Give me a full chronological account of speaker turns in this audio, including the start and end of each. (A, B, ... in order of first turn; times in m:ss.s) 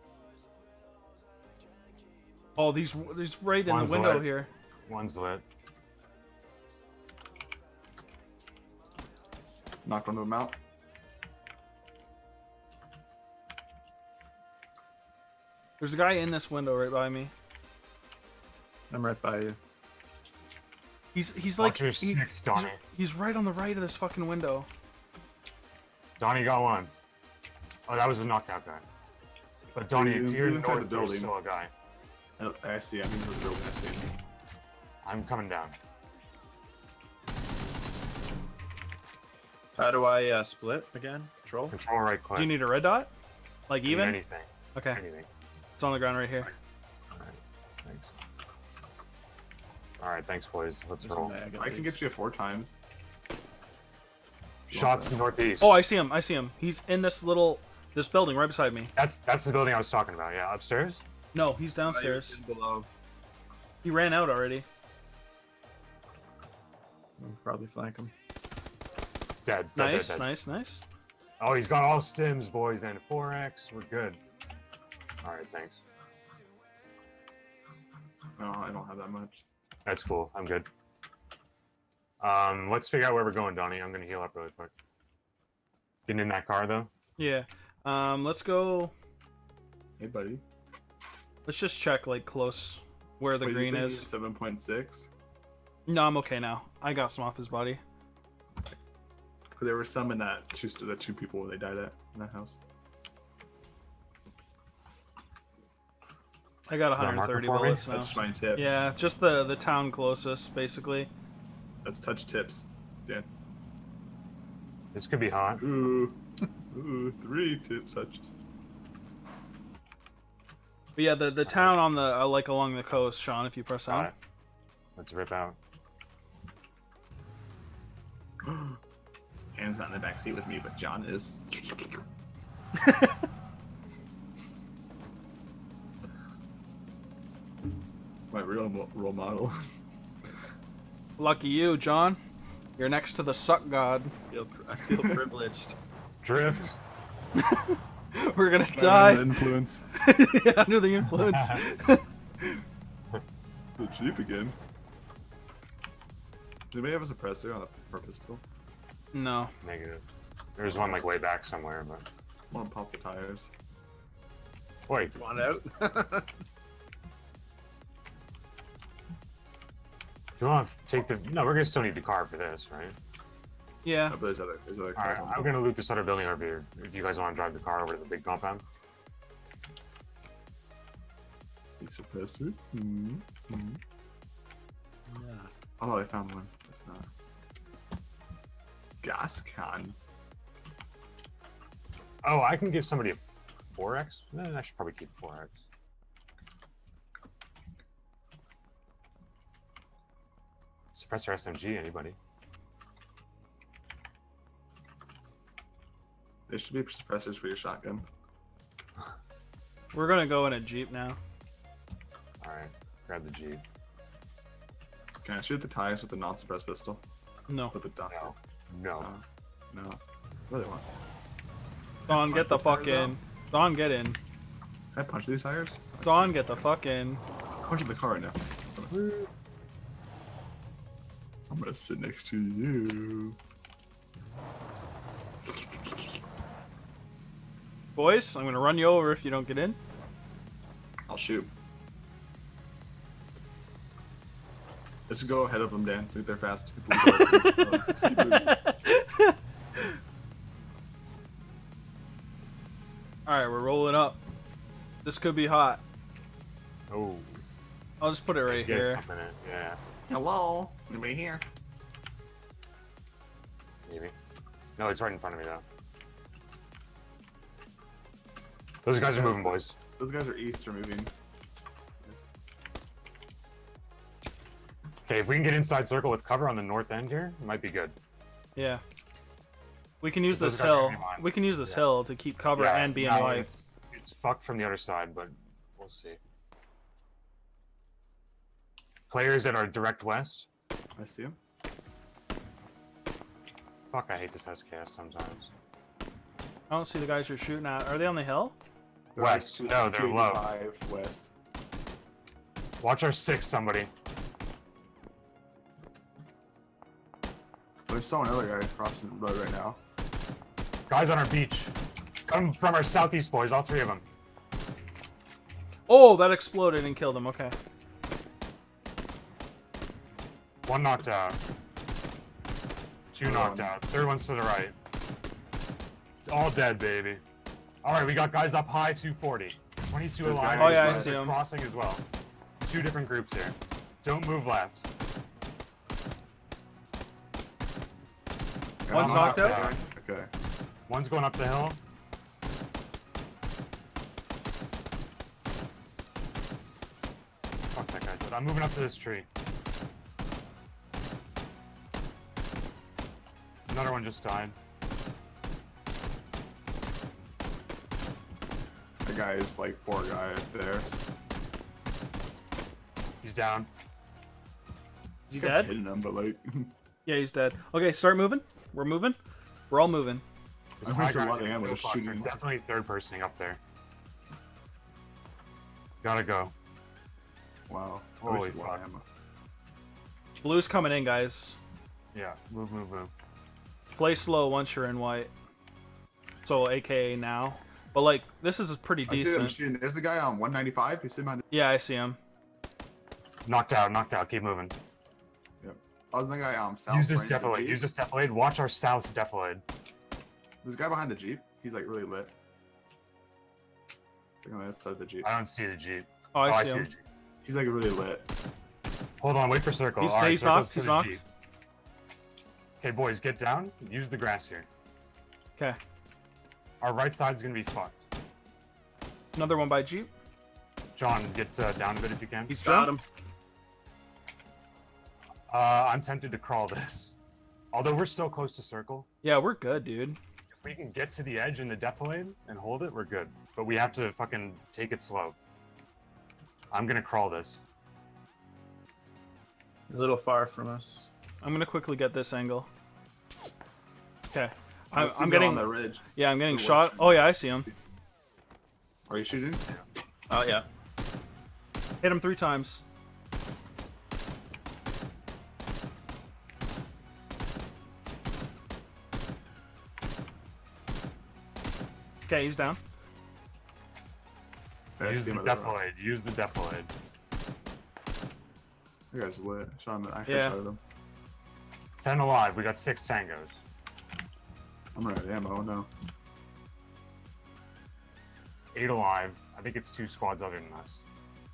0:02.6-0:04.5 A
0:03.6-0:04.3 B
0:04.9-0:05.4 B
0:09.8-0:10.6 C
0:15.8-0:17.3 A
0:18.9-0:19.6 D
0:21.1-0:24.7 A
0:21.6-0:22.8 B
0:26.2-0:26.9 B
0:27.9-0:28.8 B
0:29.7-0:31.7 B
0:29.9-0:31.3 C
0:32.4-0:34.1 C
0:35.0-0:35.8 B
0:39.8-0:41.8 D
0:41.7-0:42.6 B
0:42.3-0:43.1 A
0:43.7-0:44.2 A
0:43.8-0:45.3 B
0:44.7-0:45.0 A
0:45.8-0:46.5 A
0:47.1-0:48.1 B
0:50.0-0:51.4 B
0:51.0-0:52.0 D
0:51.5-0:52.8 C
0:54.7-0:55.3 C
0:54.7-0:55.8 B
0:55.6-0:58.9 A
0:58.9-1:01.0 B
1:01.3-1:02.4 A
1:01.8-1:02.9 D
1:03.8-1:04.6 A
1:07.2-1:08.1 D
1:09.4-1:10.3 B
1:09.8-1:10.8 A
1:11.4-1:14.2 B
1:15.2-1:15.8 B
1:18.4-1:19.4 C
1:19.8-1:20.7 B
1:22.2-1:24.7 B
1:26.1-1:26.9 B
1:27.2-1:28.9 A
1:30.0-1:30.4 C
1:31.4-1:34.1 A
1:33.4-1:35.1 C
1:35.9-1:37.8 A
1:39.5-1:42.6 C
1:46.7-1:51.1 A
1:47.0-1:47.9 B
1:47.9-1:48.7 C
1:51.8-1:53.3 C
1:54.9-1:55.6 B
1:55.6-1:58.3 C
2:01.0-2:04.1 A
2:01.4-2:01.9 B
2:03.9-2:04.1 B
2:05.0-2:05.6 B
2:08.4-2:08.8 C
2:09.5-2:12.0 C
2:12.8-2:13.2 A
2:18.3-2:19.6 C
2:21.2-2:22.2 A
2:22.8-2:24.1 A
2:24.3-2:25.8 D
2:26.2-2:26.8 B
2:27.4-2:32.6 A
2:28.7-2:29.8 C
2:31.2-2:31.6 B
2:33.8-2:34.6 C
2:36.7-2:38.4 C
2:39.1-2:39.5 A
2:39.6-2:40.0 B
2:40.6-2:42.0 B
2:42.5-2:43.5 C
2:44.9-2:45.2 B
2:45.2-2:46.3 D
2:50.4-2:53.0 B
2:53.8-2:54.2 A
2:54.1-2:55.6 C
2:55.0-2:58.6 B
3:01.8-3:03.8 C
3:05.1-3:05.5 D
3:05.8-3:07.1 C
3:09.0-3:10.0 C
3:12.2-3:15.6 B
3:20.9-3:22.2 B
3:26.5-3:28.0 C
3:29.9-3:31.2 A
3:32.4-3:33.6 B
3:35.2-3:37.0 C
3:37.5-3:37.7 A
3:37.7-3:38.3 C
3:38.1-3:39.1 B
3:39.0-3:41.0 C
3:42.1-3:44.2 A
3:42.1-3:43.2 C
3:44.9-3:46.6 C
3:46.0-3:47.2 A
3:47.6-3:48.9 C
3:48.9-3:49.3 B
3:51.5-3:53.4 C
3:58.0-3:59.8 A
4:01.1-4:01.5 C
4:05.1-4:08.5 C
4:07.1-4:09.9 A
4:13.2-4:14.2 A
4:15.0-4:15.8 A
4:16.9-4:17.4 B
4:18.0-4:19.0 A
4:18.4-4:19.8 B
4:20.1-4:21.4 C
4:23.9-4:24.1 B
4:24.8-4:25.6 B
4:28.8-4:29.7 B
4:29.0-4:31.1 C
4:35.1-4:37.9 B
4:38.6-4:38.8 A
4:40.0-4:43.5 A
4:40.3-4:41.8 B
4:42.5-4:46.2 B
4:49.1-4:50.5 B
4:51.0-4:51.4 C
4:53.9-4:55.5 B
4:56.7-4:58.6 A
4:59.1-5:01.3 C
4:59.2-5:00.5 B
5:02.8-5:03.9 B
5:07.9-5:09.8 C
5:10.9-5:11.7 B
5:12.3-5:14.0 B
5:15.9-5:17.5 A
5:20.7-5:21.4 B
5:23.1-5:24.7 B
5:23.2-5:23.7 C
5:26.3-5:27.2 B
5:27.8-5:32.0 B
5:30.2-5:31.2 C
5:30.6-5:31.3 A
5:32.6-5:34.8 B
5:38.8-5:40.3 C
5:38.9-5:39.6 A
5:38.9-5:39.8 B
5:40.9-5:41.8 B
5:47.7-5:49.3 B
5:53.7-5:54.6 B
5:59.0-6:00.9 C
6:03.2-6:03.7 B
6:05.3-6:05.7 A
6:05.3-6:06.7 C
6:07.0-6:09.2 A
6:09.7-6:10.2 A
6:10.8-6:13.6 B
6:10.8-6:12.3 C
6:16.0-6:16.5 B
6:17.7-6:19.0 C
6:18.2-6:18.8 B
6:20.4-6:21.6 A
6:22.1-6:23.1 B
6:24.0-6:25.3 A
6:26.4-6:29.6 A
6:29.1-6:31.4 C
6:31.5-6:32.2 A
6:33.4-6:34.7 B
6:35.6-6:37.8 C
6:36.9-6:39.6 B
6:40.6-6:42.3 C
6:44.4-6:45.3 C
6:45.2-6:47.0 B
6:46.3-6:46.9 A
6:47.4-6:48.3 C
6:49.2-6:51.2 B
6:50.0-6:51.2 A
6:52.8-6:54.7 B
6:56.8-6:58.0 B
6:59.3-7:00.1 A
7:01.0-7:02.6 B
7:02.5-7:02.9 A
7:02.6-7:03.0 D
7:05.5-7:07.2 B
7:07.7-7:09.1 B
7:09.2-7:10.2 A
7:10.5-7:15.4 B
7:16.7-7:17.6 B
7:19.9-7:21.1 D
7:21.4-7:22.7 A
7:24.3-7:27.7 A
7:24.9-7:27.8 C
7:29.1-7:29.6 C
7:29.3-7:29.8 B
7:30.3-7:30.6 D
7:32.0-7:32.8 A
7:42.3-7:42.8 A
7:44.9-7:45.8 C
7:45.0-7:46.9 B
7:49.1-7:50.8 C
7:50.3-7:50.6 A
7:52.0-7:53.6 B
7:54.9-7:55.9 C
7:58.7-8:01.0 B